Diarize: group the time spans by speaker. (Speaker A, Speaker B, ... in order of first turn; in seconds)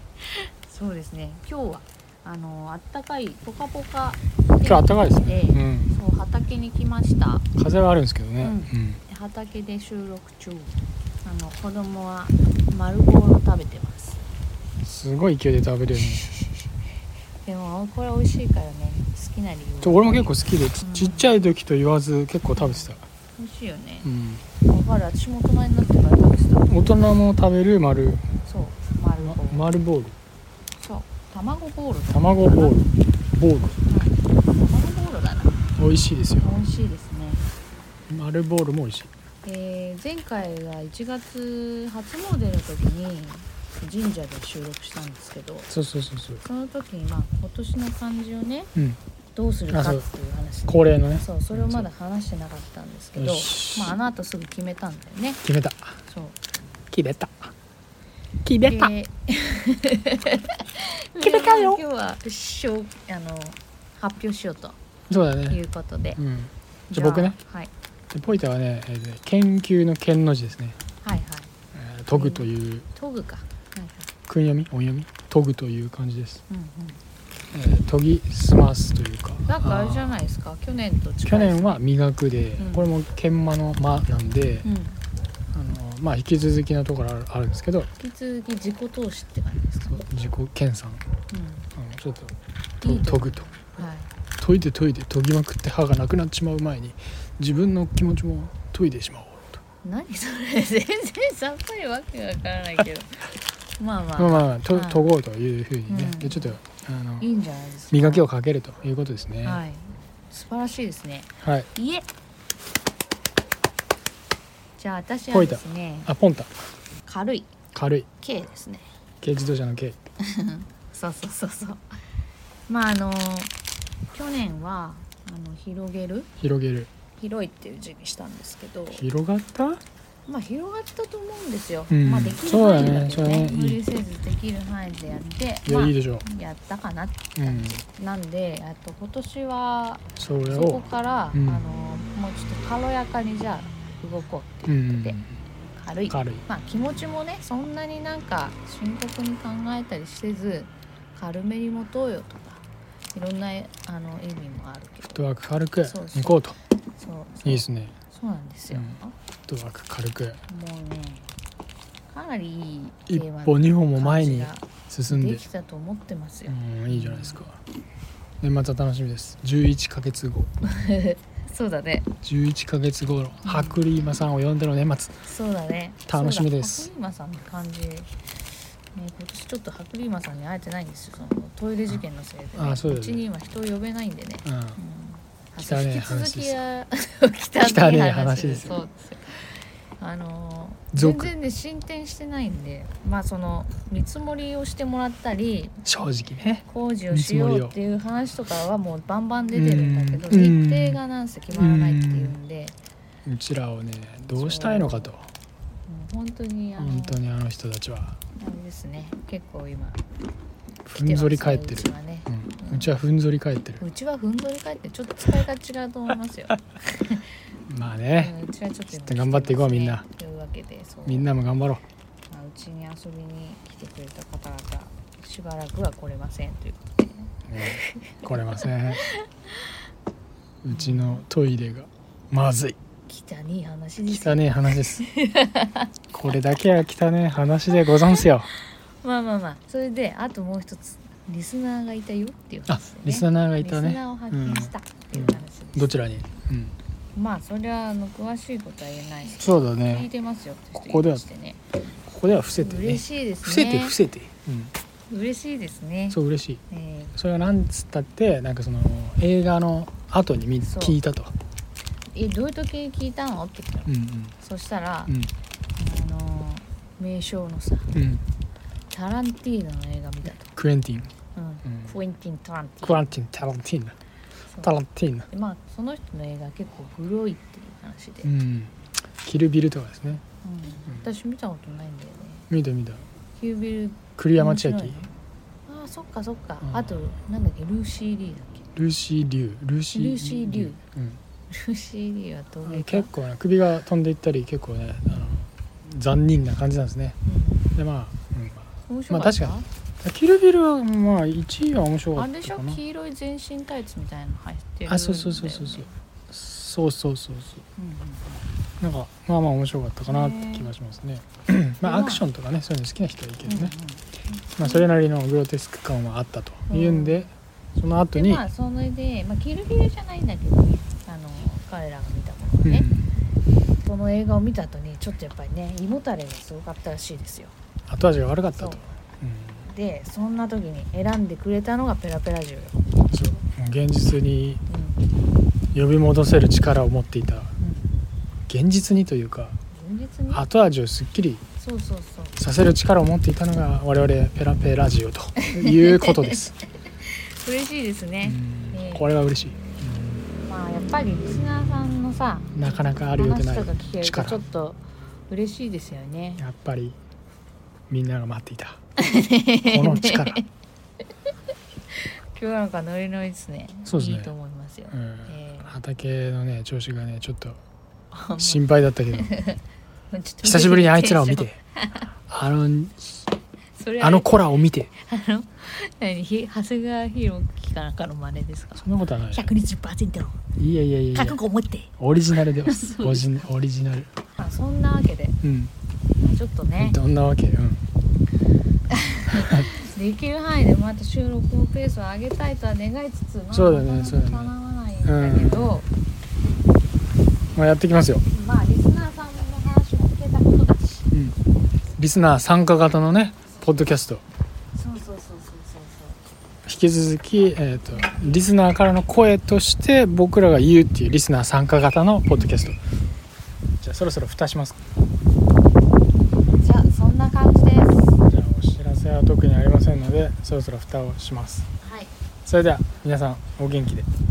Speaker A: 0.2-7.5, 8.4-14.2, 15.9-16.7, 17.4-21.3, 22.6-24.1, 24.7-26.7, 28.4-29.7, 30.7-32.9, 33.9-35.6, 36.4-37.4, 39.4-45.7, 46.4-48.7, 49.4-55.4, 56.1-56.4, 58.6-64.8, 65.5-66.2, 66.9-67.7, 71.0-71.5, 72.1-74.1, 76.5-77.0, 79.5-81.8, 82.6-82.9, 84.6-85.0, 88.0-90.0, 91.3-91.7, 92.8-94.1, 99.8-105.1, 105.9-106.6, 107.2-108.3, 109.4-112.1, 114.8-116.1, 117.0-117.5, 118.2-118.9, 120.2-121.8, 122.7-123.5, 124.1-126.3, 127.2-129.0, 130.3-155.2, 155.8-156.4, 157.0-159.1, 160.5-161.3, 162.1-167.4, 170.7-172.1, 173.4-173.9, 175.2-178.1, 178.9-195.8, 196.7-202.8, 204.4-205.1, 205.9-207.2, 208.4-210.0, 210.9-212.9, 213.8-217.4, 218.2-221.3, 222.3-229.8, 230.7-231.2, 233.1-235.9, 239.0-245.9, 247.2-251.6, 252.6-254.0, 255.1-257.1, 260.6-261.0, 262.1-265.1, 265.8-267.9, 268.9-270.5, 271.4-273.1, 275.3-278.3, 280.4-282.5, 283.4-285.1, 285.7-288.7, 289.9-290.8, 291.5-293.1, 295.1-295.4, 297.3-297.7, 298.9-299.7, 302.1-306.0, 307.8-308.4, 310.0-310.7, 311.8-312.2, 313.4-314.9, 316.7-317.3, 318.1-322.9, 323.8-327.5, 328.6-328.8, 329.6-332.8, 334.7-335.1, 337.6-337.9, 339.7-340.4, 341.6-342.4, 345.4-346.4, 347.0-349.1, 350.4-356.4, 359.0-360.4, 361.9-365.7, 368.1-372.1, 373.8-380.4, 381.1-381.9, 382.6-383.3, 384.3-385.4, 386.2-387.0, 388.9-395.9, 398.3-401.1, 404.8-406.2, 407.9-408.2, 416.5-418.2, 421.8-422.1
Speaker B: 4.6-5.9, 7.6-9.0, 14.8-16.2, 19.8-23.0, 24.0-24.4, 26.7-28.3, 29.2-30.2, 32.1-33.8, 35.8-36.6, 38.1-39.1, 45.7-46.4, 49.7-50.0, 50.7-51.9, 53.2-54.0, 55.4-56.0, 56.9-57.5, 58.4-58.9, 61.2-61.8, 65.1-65.6, 66.2-67.4, 68.1-70.8, 71.7-72.9, 74.3-76.4, 77.5-80.2, 81.2-84.7, 85.5-87.9, 89.8-91.0, 91.8-93.5, 94.4-99.6, 104.2-107.3, 107.9-109.6, 111.4-111.7, 115.3-116.5, 117.7-118.1, 119.2-120.0, 126.4-126.9, 128.9-129.8, 131.9-133.8, 135.7-136.2, 137.4-137.8, 140.2-141.6, 144.7-145.4, 146.1-146.5, 155.1-156.6, 157.4-157.9, 158.7-160.4, 163.1-165.4, 166.5-167.6, 168.4-170.5, 172.2-175.2, 176.1-176.9, 182.6-183.3, 184.4-184.8, 185.6-186.6, 187.6-188.8, 190.9-191.3, 195.8-197.8, 199.5-201.0, 201.5-202.4, 203.2-205.3, 206.8-208.2, 210.9-213.8, 217.7-218.3, 218.9-220.1, 221.1-221.8, 227.5-229.0, 230.6-232.8, 234.1-235.1, 236.1-238.5, 242.7-246.8, 249.4-250.1, 250.8-251.2, 252.1-254.7, 256.1-256.6, 257.2-261.3, 263.9-264.4, 267.9-268.2, 270.5-271.1, 272.8-274.0, 274.6-275.3, 278.2-280.2, 282.5-283.1, 284.2-285.0, 286.6-287.0, 288.8-291.2, 292.6-297.2, 297.8-302.8, 304.9-307.6, 308.8-313.8, 314.6-318.5, 322.6-323.1, 327.9-329.7, 333.1-334.6, 335.7-337.5, 338.5-339.6, 340.3-341.4, 342.4-346.6, 348.2-350.3, 352.5-354.4, 356.4-357.0, 357.9-358.8, 359.6-360.4, 363.9-364.3, 364.9-367.6, 368.4-369.3, 370.4-371.6, 372.3-373.2, 374.0-374.9, 378.8-379.5, 380.6-381.4, 382.0-384.1, 385.4-385.7, 386.8-387.8, 389.4-389.7, 393.5-394.5, 395.1-395.8, 397.6-398.2, 401.1-401.4, 402.0-404.2, 406.6-412.8, 413.8-414.8, 418.2-421.7, 422.4-424.1